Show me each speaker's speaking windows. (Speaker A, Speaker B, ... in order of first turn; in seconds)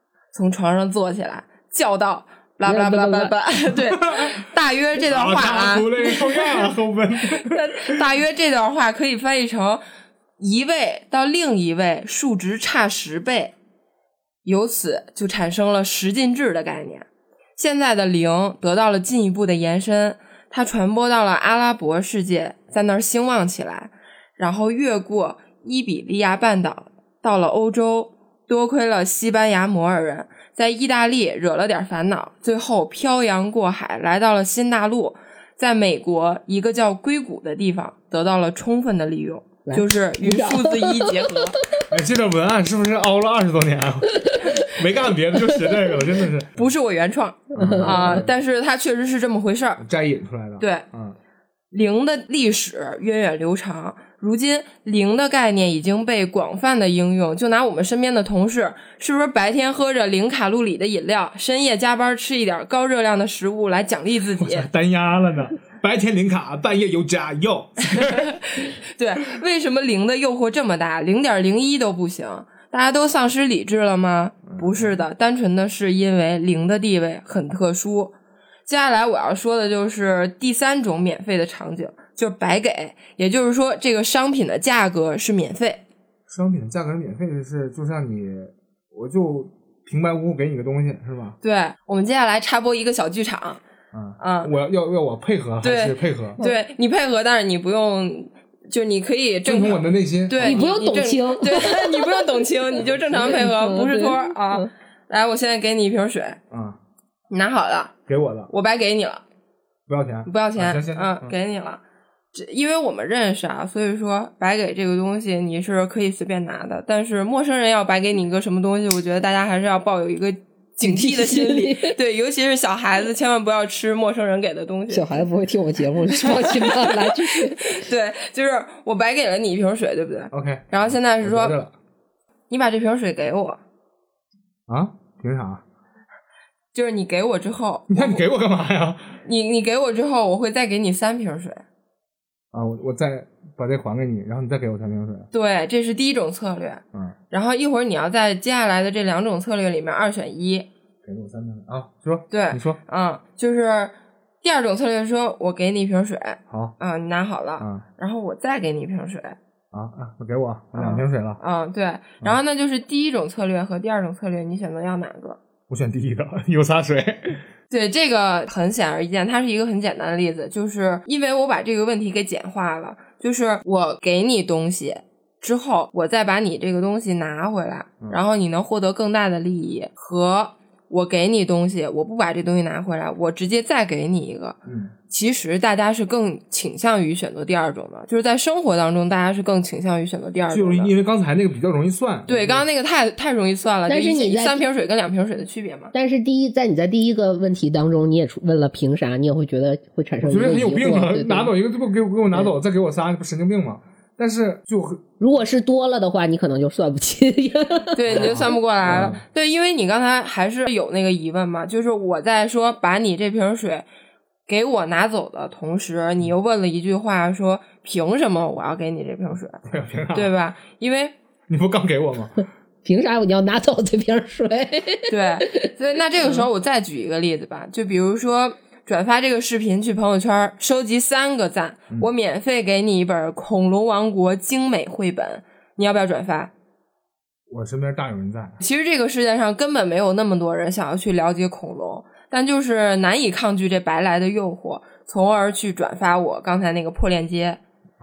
Speaker A: 0.3-6.7, 7.3-9.8, 10.4-13.5, 14.4-17.1, 17.6-41.6, 46.6-49.8, 50.6-50.9, 51.7-64.7, 67.9-78.2, 78.7-85.8, 91.4-93.6, 94.2-94.5, 95.6-106.4, 107.3-107.9, 108.5-109.2, 110.3-111.8, 112.3-125.3, 126.1-131.6, 132.5-133.6, 136.7-138.2, 139.2-141.6, 145.3-150.7, 152.3-159.4, 160.7-165.4, 167.7-184.6, 185.1-190.9, 192.3-195.9, 207.9-213.9, 214.5-219.6, 220.1-221.1, 225.1-236.5, 238.6-247.6
Speaker B: 2.7-3.3, 39.7-41.8, 44.2-44.7, 45.5-45.8, 47.6-48.2, 100.4-102.5, 103.0-104.7, 120.8-122.0, 124.9-127.8, 193.9-194.6, 195.9-201.5, 205.2-209.1, 222.8-225.7
Speaker C: 4.0-4.4, 5.0-8.0, 41.9-46.7, 47.5-48.3, 49.8-51.2, 64.4-68.4, 74.5-74.9, 86.3-91.4, 93.9-96.4, 99.5-100.7, 106.5-106.8, 108.1-108.5, 109.9-111.3, 130.3-131.7, 134.7-135.6, 137.9-139.2, 142.5-145.3, 151.1-152.8, 156.5-156.8, 159.7-161.4, 165.7-167.4, 184.7-184.9, 190.5-192.7, 200.2-205.0, 208.1-209.2, 219.7-220.3, 221.5-222.4, 237.5-238.6